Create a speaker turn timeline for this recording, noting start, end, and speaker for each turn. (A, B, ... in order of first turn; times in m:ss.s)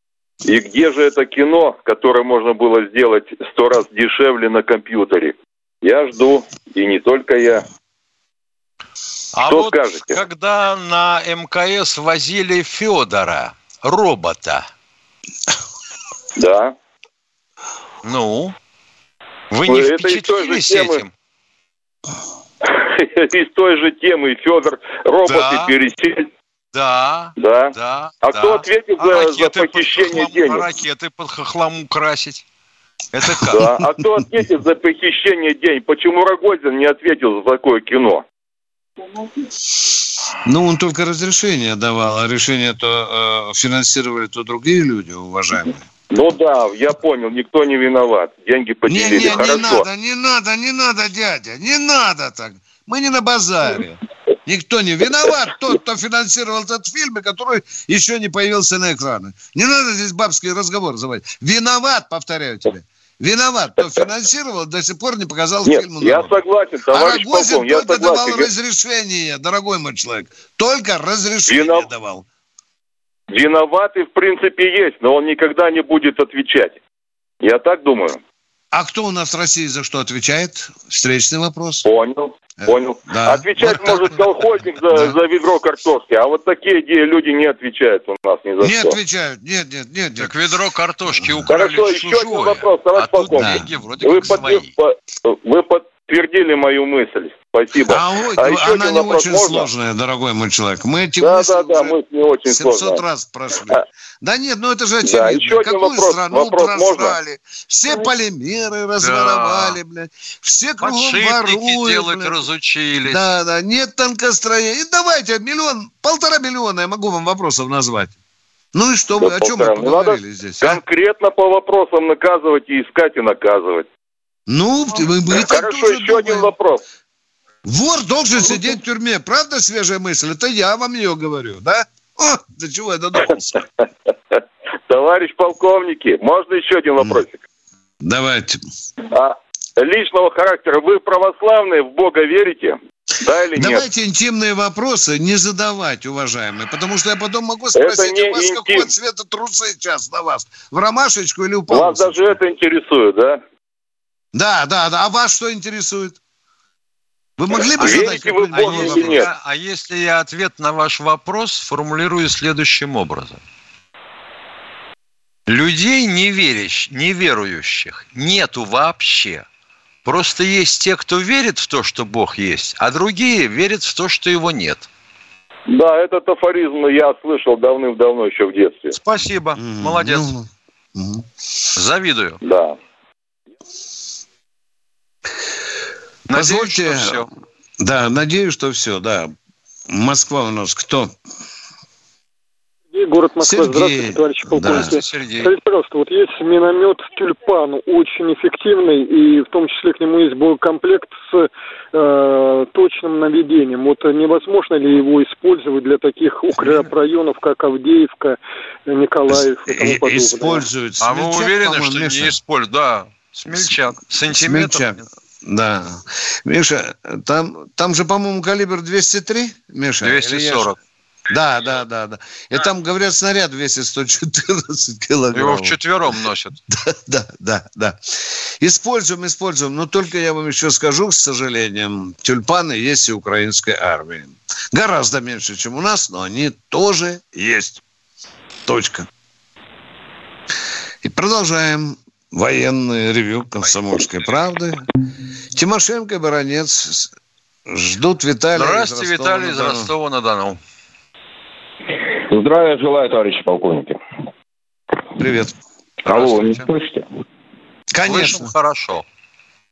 0:00.4-0:07.6 A
0:09.3-0:14.7 B
0:09.4-0:10.2 A
0:16.4-0:16.8 A
0:18.0-0:18.6 B
0:19.5-0:21.1 B
0:19.7-0:21.0 A
0:22.6-0:26.3 A
0:25.3-0:25.7 B
0:26.7-0:32.4 B
0:27.4-0:30.7 A
0:33.1-0:33.7 B
0:33.5-0:38.2 A
0:33.6-0:33.8 C
0:40.4-0:45.8 C
0:46.1-0:49.9 A
0:48.9-1:12.2 C
1:05.6-1:08.5 A
1:11.5-1:11.9 A
1:13.3-1:16.8 A
1:17.4-1:18.2 A
1:18.7-1:21.9 C
1:21.8-1:29.0 A
1:22.6-1:25.2 C
1:28.6-1:30.5 C
1:30.2-1:34.7 B
1:31.2-1:31.5 C
1:31.5-1:39.7 A
1:33.4-1:33.6 C
1:37.9-1:42.0 C
1:41.2-1:43.0 A
1:42.5-1:52.4 C
1:45.0-1:47.2 A
1:49.0-1:49.8 B
1:50.8-1:53.2 B
1:53.1-1:58.2 C
1:58.7-2:00.8 C
1:59.2-2:03.9 A
2:04.5-2:06.5 C
2:05.3-2:06.8 A
2:07.6-2:13.6 C
2:14.4-2:17.4 A
2:18.0-2:18.6 C
2:19.1-2:23.9 A
2:23.6-2:32.4 C
2:27.8-2:28.9 A
2:31.7-2:33.4 A
2:34.3-2:36.2 C
2:37.4-2:39.3 C
2:37.8-2:39.3 A
2:37.8-2:43.4 B
2:45.5-2:49.5 B
2:50.0-2:54.9 B
2:55.7-2:59.0 A
2:58.9-3:00.3 B
2:59.6-3:01.3 C
3:01.8-3:02.4 B
3:02.4-3:02.8 A
3:06.3-3:07.3 B
3:06.3-3:07.3 C
3:07.8-3:09.3 C
3:09.9-3:11.1 C
3:12.9-3:30.7 D
3:13.4-3:15.0 C
3:14.6-3:15.5 B
3:29.7-3:32.4 C
3:31.0-3:35.0 B
3:33.5-3:33.8 C
3:34.3-3:40.8 C
3:40.0-3:40.8 B
3:41.3-3:45.8 C
3:45.3-3:46.6 B
3:46.7-3:48.0 C
3:48.6-3:57.8 C
3:58.7-3:59.1 C
4:01.0-4:04.9 C
4:05.5-4:07.1 C
4:07.7-4:09.9 C
4:08.6-4:10.6 B
4:12.3-4:14.0 E
4:15.2-4:15.5 C
4:16.0-4:17.1 E
4:16.1-4:16.7 B
4:17.9-4:18.5 C
4:18.0-4:19.0 B